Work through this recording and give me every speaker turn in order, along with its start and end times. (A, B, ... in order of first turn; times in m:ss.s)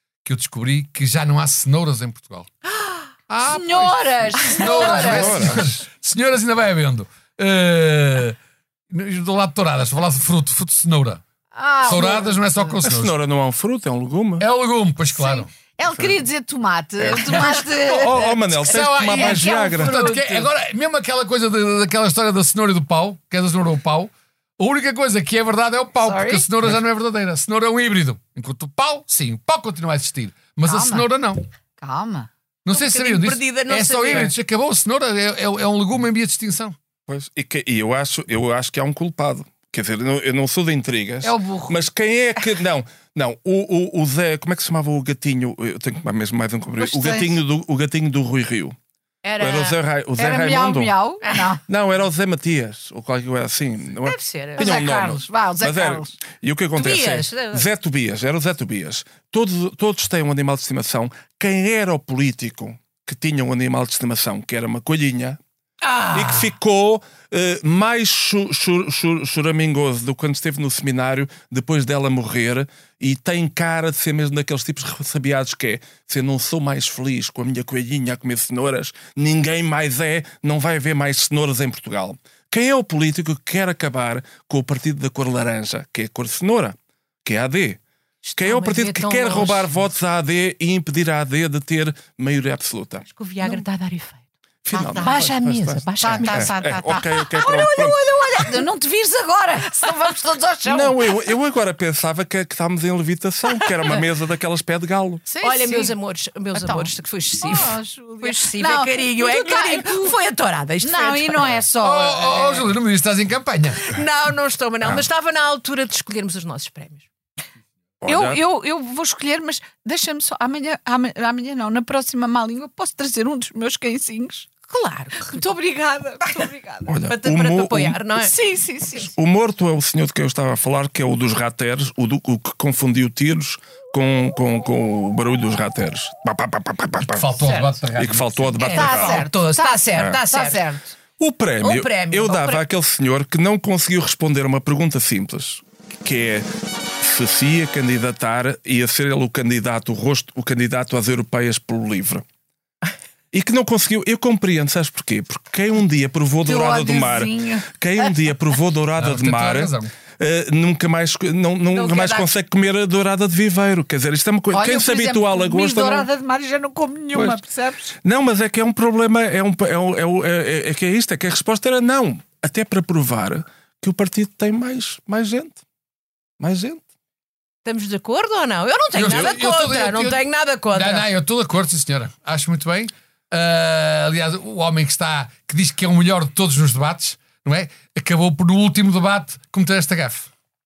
0:00.2-0:02.5 A
0:02.6-0:03.0 B
0:03.3-0:08.4 A
0:03.4-0:05.7 C
0:04.8-0:05.7 D
0:08.9-0:11.2 A
0:11.5-0:12.8 C
0:11.8-0:13.1 A
0:12.8-0:14.4 D
0:14.4-0:15.5 A
0:15.2-0:20.4 C
0:15.9-0:16.2 D
0:17.0-0:20.4 D
0:18.6-0:31.4 A
0:26.0-0:26.4 C
0:30.6-0:31.1 C
0:31.8-0:32.3 C
0:32.6-0:36.8 A
0:32.7-0:34.3 B
0:37.1-0:48.8 D
0:41.2-0:41.8 C
0:46.8-0:47.4 C
0:49.2-0:49.8 B
0:49.4-0:50.9 D
0:50.2-0:51.6 C
0:51.2-0:51.5 B
0:51.7-1:05.4 D
0:54.0-0:54.7 B
0:54.6-0:56.1 C
0:56.8-0:57.7 B
1:05.8-1:06.5 B
1:06.1-1:27.8 D
1:28.3-1:29.7 B
1:28.4-1:33.0 D
1:28.4-1:28.7 C
1:33.1-1:34.2 B
1:34.6-1:38.0 D
1:34.7-1:35.3 C
1:35.0-1:37.3 B
1:36.0-1:41.1 C
1:40.6-1:45.2 D
1:45.2-1:45.9 C
1:45.4-1:51.6 B
1:46.5-1:50.0 C
1:50.8-1:52.7 C
1:51.8-1:54.0 A
1:53.8-1:57.1 B
1:58.0-1:58.4 D
1:58.1-2:04.5 C
2:04.7-2:05.4 B
2:05.2-2:06.9 C
2:06.9-2:08.0 D
2:07.1-2:08.3 B
2:08.2-2:09.1 C
2:09.0-2:17.4 D
2:17.1-2:18.5 A
2:17.4-2:17.7 C
2:18.0-2:19.2 D
2:18.6-2:20.6 B
2:18.6-2:20.9 C
2:19.9-2:20.2 D
2:21.2-2:26.5 D
2:21.6-2:22.6 B
2:27.0-2:32.2 D
2:33.3-2:46.1 D
2:36.4-2:38.1 C
2:39.0-2:39.9 A
2:41.7-2:42.3 B
2:44.5-2:47.9 C
2:47.1-2:47.4 D
2:48.0-2:55.6 D
2:56.4-2:56.8 D
2:57.6-3:01.1 B
2:58.9-3:00.2 A
3:00.7-3:10.3 A